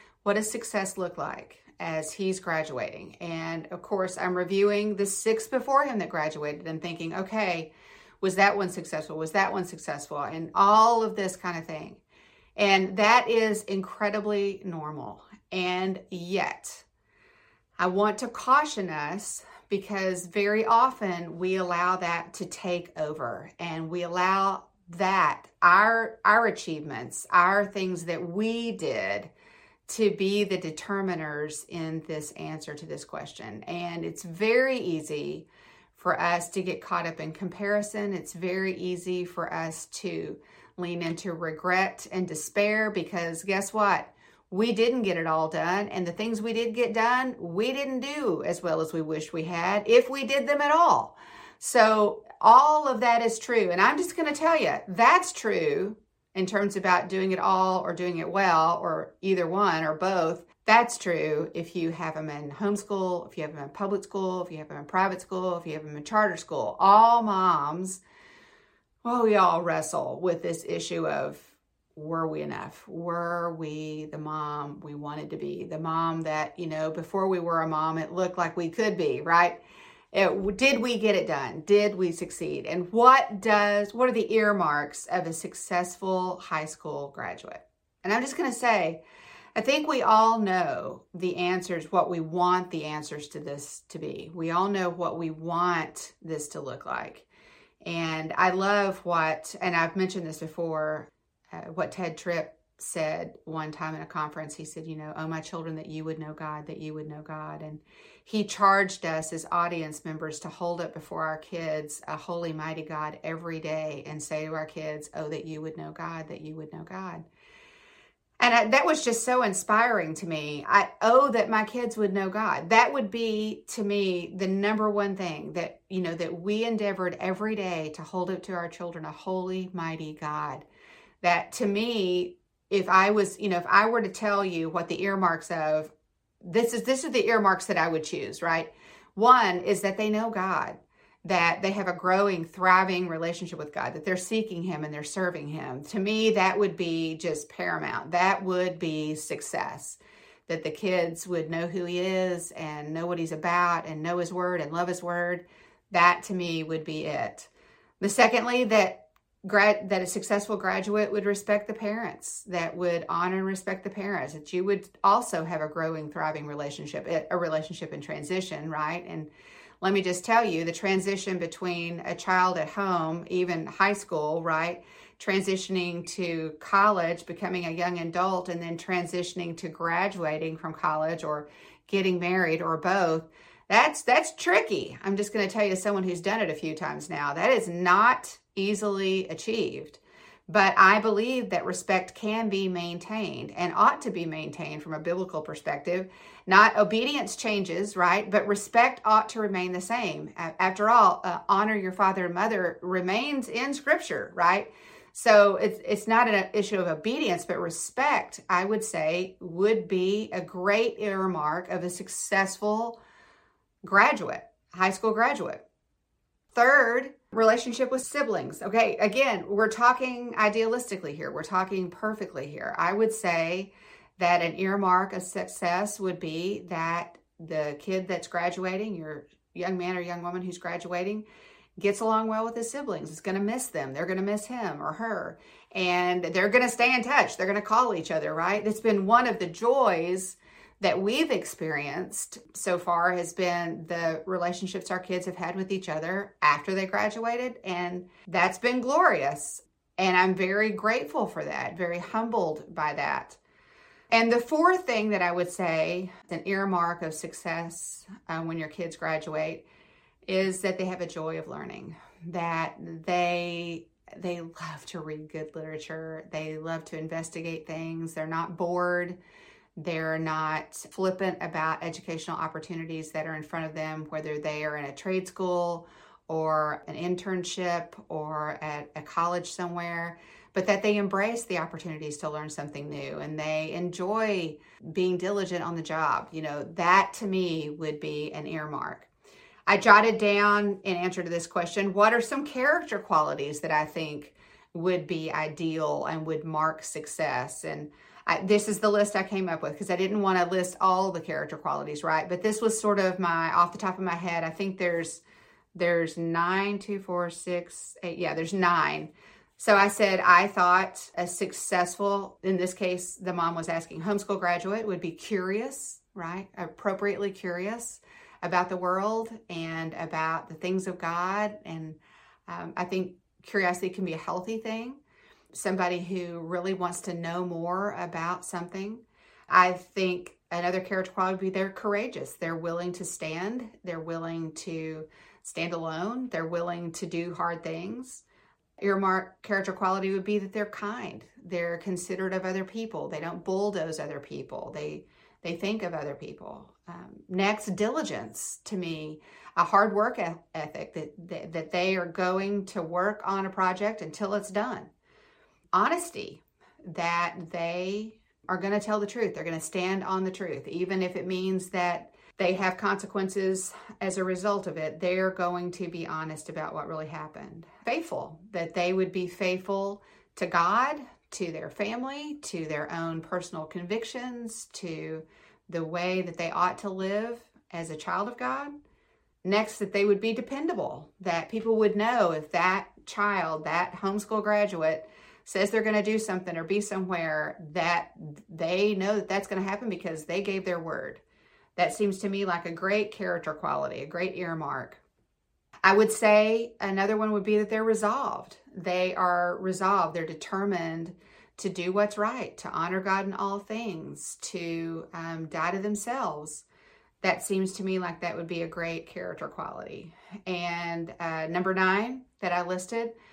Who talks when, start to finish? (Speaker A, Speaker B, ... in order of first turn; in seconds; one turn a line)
Speaker A: 0.2-12.0
Speaker A: 12.6-16.9
Speaker A: 17.8-29.3
Speaker A: 29.9-68.0
Speaker A: 69.0-79.6
Speaker A: 80.1-89.0
Speaker A: 89.5-97.3
Speaker A: 97.8-117.3
Speaker A: 118.4-130.7
Speaker A: 131.2-169.3
Speaker A: 169.8-213.0
Speaker A: 213.8-215.6
Speaker A: 216.5-231.2
Speaker A: 231.8-253.4
Speaker A: 254.1-259.6
Speaker A: 260.3-269.2
Speaker A: 269.8-289.1
Speaker A: 289.7-305.2
Speaker A: 305.8-325.0
Speaker A: 325.5-338.2
Speaker A: 338.8-354.9
Speaker A: 355.7-378.7
Speaker A: 379.4-391.2
Speaker A: 391.8-395.0
Speaker A: 395.8-406.6
Speaker A: 407.2-413.1